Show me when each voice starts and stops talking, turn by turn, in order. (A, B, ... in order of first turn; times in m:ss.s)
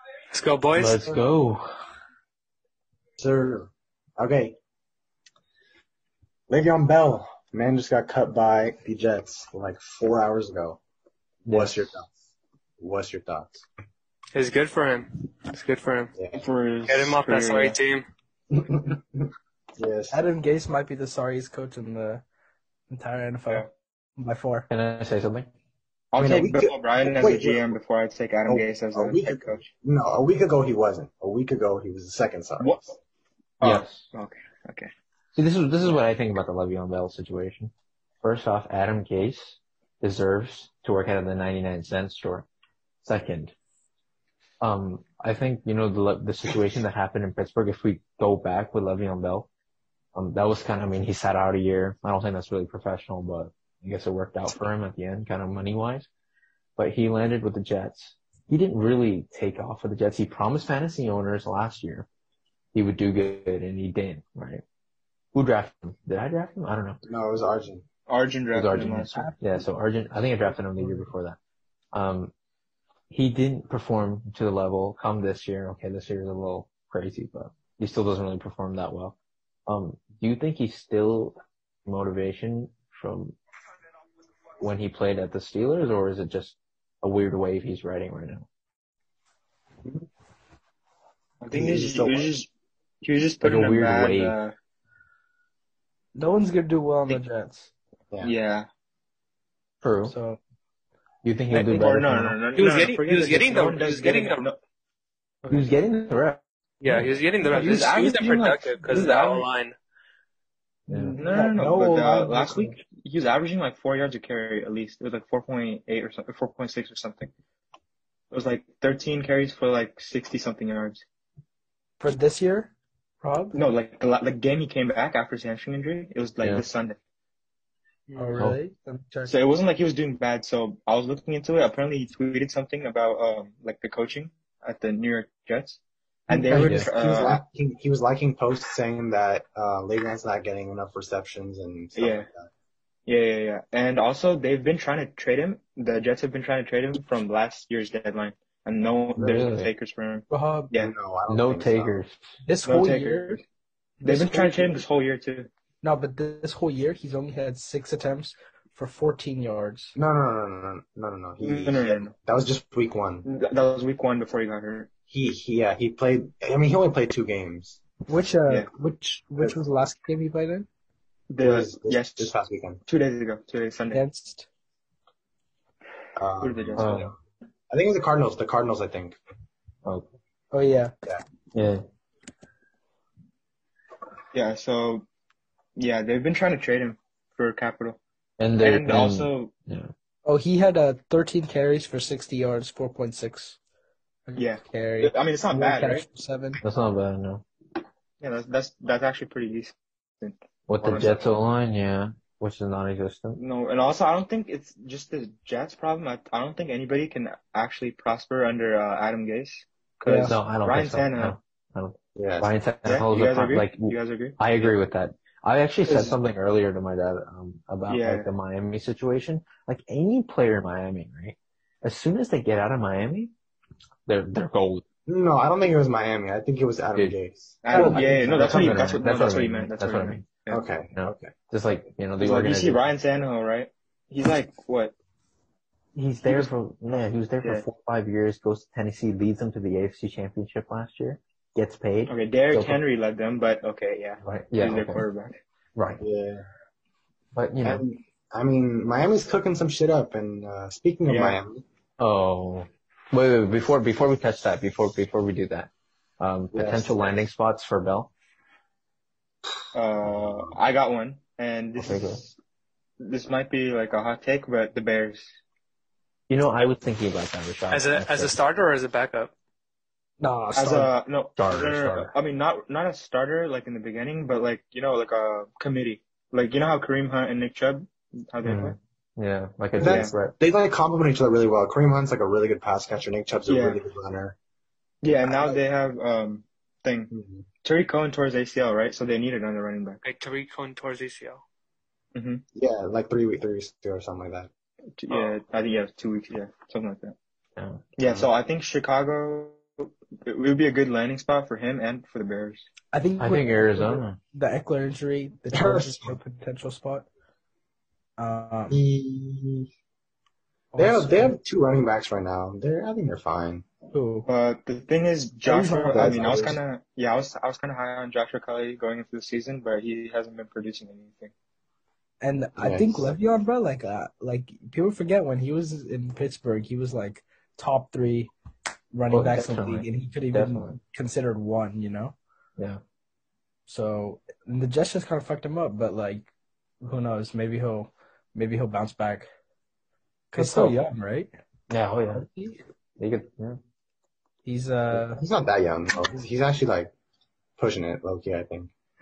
0:00.3-0:01.0 A
0:00.7-0:01.8 B
0:03.2-0:04.6 C
0:06.5-0:10.8 C
0:11.4-0:12.1 C
0:11.4-0:12.0 B
0:12.8-0:13.6 C
0:14.3-0:16.1 A
0:16.1-0:16.4 C
0:16.3-0:17.8 D
0:16.8-0:18.1 A
0:18.5-0:20.2 C
0:20.1-0:22.2 E
0:22.9-0:23.6 E
0:24.2-0:24.7 E
0:24.7-0:25.5 B
0:26.1-0:29.6 D
0:26.2-0:27.8 C
0:28.4-0:32.8 C
0:32.6-0:32.9 D
0:33.6-0:34.9 D
0:33.6-0:34.0 B
0:35.3-0:42.5 B
0:43.0-0:43.5 B
0:44.6-0:49.5 B
0:50.1-0:56.1 B
0:56.8-1:02.1 B
1:02.7-1:04.6 B
1:05.3-1:07.0 B
1:07.0-1:07.8 C
1:08.1-1:09.3 D
1:08.5-1:11.4 B
1:09.1-1:09.6 E
1:10.8-1:11.1 E
1:11.9-1:12.3 B
1:13.1-1:19.2 B
1:19.7-1:23.4 B
1:24.6-1:28.5 B
1:31.4-1:32.5 D
1:31.5-1:32.3 C
1:33.0-1:34.5 D
1:33.4-1:34.4 B
1:36.1-1:37.7 E
1:38.2-1:38.7 D
1:39.8-1:40.2 B
1:40.1-1:40.4 E
1:41.2-1:42.4 B
1:41.5-1:44.6 D
1:42.6-1:44.5 A
1:45.5-1:47.0 B
1:46.8-1:49.7 A
1:47.4-1:49.4 D
1:50.9-1:51.2 B
1:50.9-1:57.3 D
1:51.2-1:52.8 E
1:58.3-2:01.0 D
2:02.0-2:03.6 E
2:03.5-2:07.0 D
2:08.1-2:08.4 A
2:08.2-2:09.4 E
2:09.2-2:17.4 D
2:16.3-2:16.9 E
2:16.6-2:22.5 C
2:16.6-2:16.9 B
2:21.9-2:22.3 D
2:23.1-2:30.9 D
2:29.2-2:29.7 B
2:30.3-2:30.7 E
2:30.8-2:32.0 C
2:31.3-2:32.3 B
2:32.4-2:33.4 E
2:32.6-2:33.4 D
2:34.0-2:34.8 E
2:34.0-2:35.5 D
2:35.8-2:39.9 E
2:39.9-2:43.2 C
2:41.4-2:42.1 D
2:43.2-2:44.9 D
2:45.1-2:47.8 C
2:48.1-2:50.7 E
2:51.3-2:52.3 D
2:51.4-2:52.8 C
2:52.8-2:54.0 D
2:53.9-2:54.5 E
2:56.2-2:57.2 C
2:56.4-2:56.9 D
2:56.8-2:57.1 B
2:57.7-2:59.2 C
3:00.5-3:00.9 E
3:01.5-3:01.8 B
3:04.3-3:05.0 D
3:05.8-3:08.0 D
3:08.4-3:09.9 B
3:08.6-3:09.5 D
3:10.2-3:13.6 E
3:14.3-3:16.6 E
3:14.4-3:16.0 D
3:16.6-3:17.4 B
3:18.2-3:21.3 D
3:20.7-3:23.4 B
3:23.4-3:31.4 D
3:30.0-3:30.3 E
3:30.2-3:43.3 B
3:32.2-3:32.5 C
3:32.8-3:34.8 D
3:35.9-3:36.1 D
3:37.9-3:38.3 D
3:44.0-3:44.8 B
3:45.1-3:49.0 C
3:47.6-3:50.6 D
3:47.7-3:50.3 B
3:50.5-3:51.3 C
3:50.9-3:52.8 B
3:52.2-3:54.9 D
3:55.9-4:02.8 B
3:56.2-3:56.5 D
4:02.1-4:05.4 D
4:04.2-4:05.0 B
4:05.7-4:06.0 B
4:06.0-4:06.5 C
4:07.3-4:07.8 B
4:07.6-4:11.6 C
4:11.0-4:11.4 D
4:12.0-4:18.1 B
4:16.5-4:17.2 C
4:19.7-4:22.4 D
4:21.8-4:22.2 B
4:23.0-4:25.4 D
4:26.3-4:28.3 B
4:27.7-4:29.3 A
4:30.2-4:30.9 E
4:30.5-4:38.8 D
4:31.4-4:32.1 B
4:38.4-4:40.3 B
4:39.8-4:44.4 C
4:39.8-4:40.1 D
4:43.4-4:43.8 D
4:45.0-4:47.1 D
4:45.1-4:45.6 C
4:47.1-4:47.4 C
4:47.6-4:50.0 D
4:50.0-4:51.4 A
4:52.1-4:52.4 D
4:52.5-4:54.5 C
4:55.0-4:57.1 D
4:55.1-4:55.4 A
4:57.6-4:57.8 B
4:58.0-5:02.7 D
5:02.9-5:07.1 E
5:03.2-5:04.2 B
5:05.5-5:06.2 C
5:08.2-5:08.8 E
5:08.7-5:09.7 C
5:10.7-5:11.4 E
5:10.8-5:13.6 C
5:13.9-5:14.3 E
5:14.2-5:21.3 D
5:15.4-5:16.6 E
5:15.9-5:16.6 C
5:22.2-5:28.3 E
5:22.6-5:23.2 C
5:28.9-5:32.1 E
5:29.1-5:30.8 B
5:33.7-5:36.3 E
5:36.8-5:39.3 E
5:40.3-5:41.3 E
5:40.3-5:40.8 B
5:41.7-5:42.3 B
5:42.1-5:42.6 E
5:43.0-5:43.6 B
5:44.4-5:45.2 E
5:44.9-5:46.9 C
5:47.6-5:48.7 C